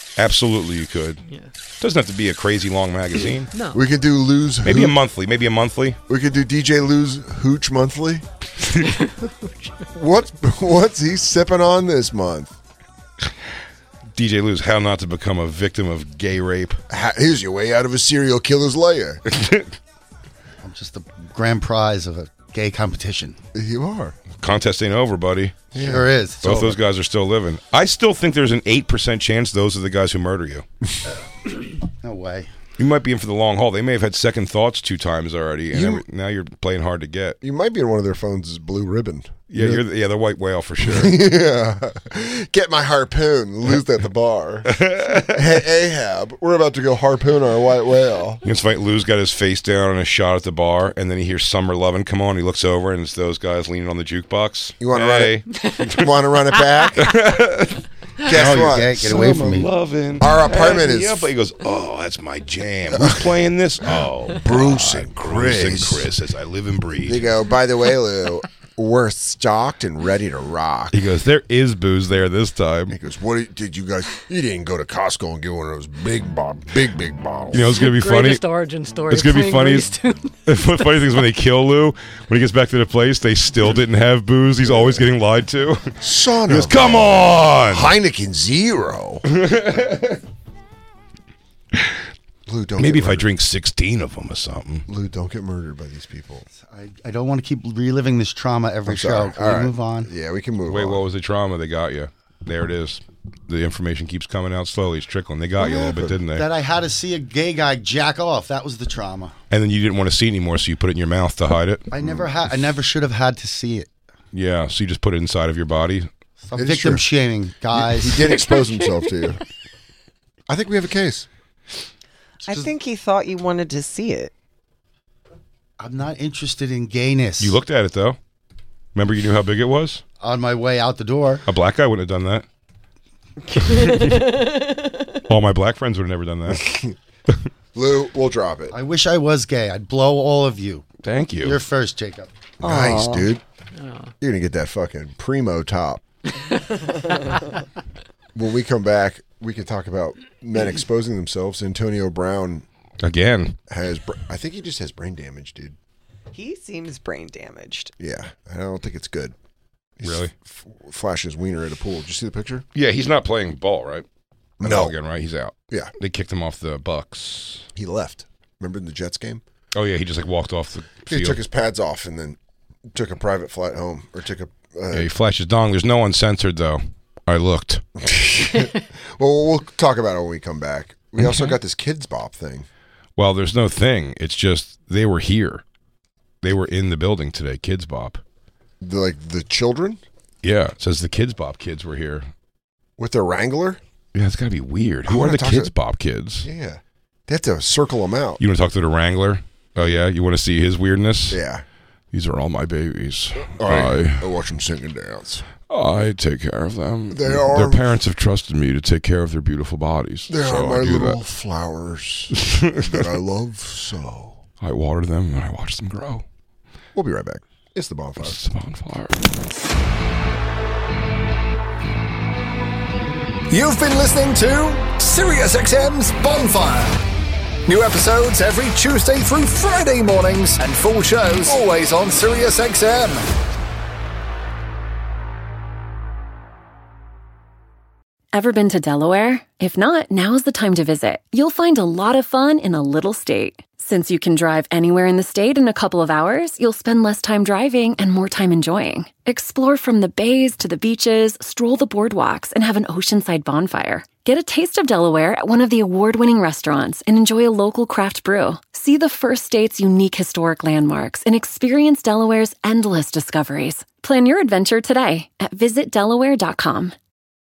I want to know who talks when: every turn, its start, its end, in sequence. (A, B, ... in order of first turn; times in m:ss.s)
0:00.2-0:01.2 A
0:01.2-0:01.5 B
0:01.8-0:03.5 A
0:03.5-0:03.8 B
0:03.7-0:05.0 C
0:04.6-0:06.0 A
0:06.1-0:08.2 C
0:08.9-0:09.7 B
0:09.9-0:12.6 C
0:14.1-0:16.8 A
0:16.9-0:19.2 C
0:19.3-0:19.7 A
0:20.6-0:23.4 D
0:23.5-0:24.2 C
0:24.4-0:25.6 A
0:25.7-0:26.1 C
0:25.8-0:26.8 D
0:26.4-0:30.6 A
0:32.0-0:32.5 D
0:32.8-0:37.4 A
0:35.7-0:36.0 C
0:37.4-0:39.8 C
0:39.5-0:41.2 A
0:40.8-0:48.4 C
0:44.7-0:45.6 A
0:48.4-0:55.4 A
0:54.8-0:57.2 C
0:55.5-0:56.0 B
0:57.0-1:07.2 A
0:58.2-0:59.3 C
0:58.3-0:59.7 D
1:00.2-1:01.3 C
1:02.9-1:03.4 C
1:04.4-1:06.1 C
1:07.0-1:11.0 C
1:10.9-1:13.0 A
1:12.9-1:17.8 C
1:17.5-1:18.4 A
1:17.8-1:21.1 B
1:19.1-1:19.9 A
1:20.4-1:25.9 A
1:24.6-1:25.1 C
1:26.0-1:29.2 C
1:26.5-1:27.9 A
1:29.3-1:30.2 A
1:32.5-1:33.3 C
1:32.8-1:34.8 A
1:34.9-1:36.4 C
1:36.5-1:40.1 D
1:38.8-1:41.0 C
1:40.7-1:46.4 A
1:45.6-1:46.2 C
1:46.3-1:49.3 D
1:49.5-1:51.9 A
1:51.9-1:53.9 D
1:52.0-1:52.3 C
1:54.3-1:56.1 A
1:56.4-1:58.3 D
1:56.6-1:57.0 C
1:57.7-1:59.4 C
1:58.3-1:59.3 B
2:00.5-2:01.3 C
2:02.4-2:04.3 E
2:05.8-2:07.6 D
2:07.4-2:08.2 A
2:08.9-2:10.0 A
2:10.2-2:11.4 D
2:11.5-2:12.4 A
2:13.5-2:14.5 A
2:15.3-2:16.7 A
2:16.5-2:16.9 C
2:17.7-2:18.7 C
2:18.7-2:20.8 D
2:21.0-2:21.6 A
2:21.4-2:22.3 D
2:22.6-2:23.4 C
2:22.6-2:23.3 E
2:23.8-2:24.1 B
2:24.2-2:26.0 C
2:26.5-2:26.8 B
2:28.3-2:32.6 C
2:33.0-2:33.6 A
2:33.7-2:35.8 C
2:36.3-2:37.9 E
2:38.0-2:39.3 C
2:40.0-2:42.6 C
2:40.0-2:40.3 A
2:42.7-2:44.0 A
2:44.6-2:44.9 C
2:44.6-2:47.7 A
2:47.7-2:49.4 C
2:49.7-2:51.4 A
2:51.1-2:52.4 C
2:52.9-2:55.1 C
2:54.9-2:57.8 A
2:58.0-3:02.7 C
3:01.2-3:01.6 A
3:03.2-3:05.6 A
3:06.4-3:08.2 A
3:08.8-3:10.0 C
3:10.4-3:12.2 A
3:13.0-3:13.8 C
3:14.1-3:16.5 A
3:15.1-3:15.7 C
3:16.4-3:18.4 C
3:18.4-3:21.4 A
3:21.3-3:21.6 C
3:22.1-3:24.3 A
3:23.5-3:25.4 C
3:25.7-3:31.2 A
3:27.1-3:27.8 C
3:30.3-3:34.4 C
3:32.4-3:33.0 A
3:34.6-3:36.2 A
3:36.9-3:38.4 C
3:38.2-3:39.2 A
3:43.5-3:47.0 F
3:47.7-3:53.3 F
3:58.3-4:26.9 G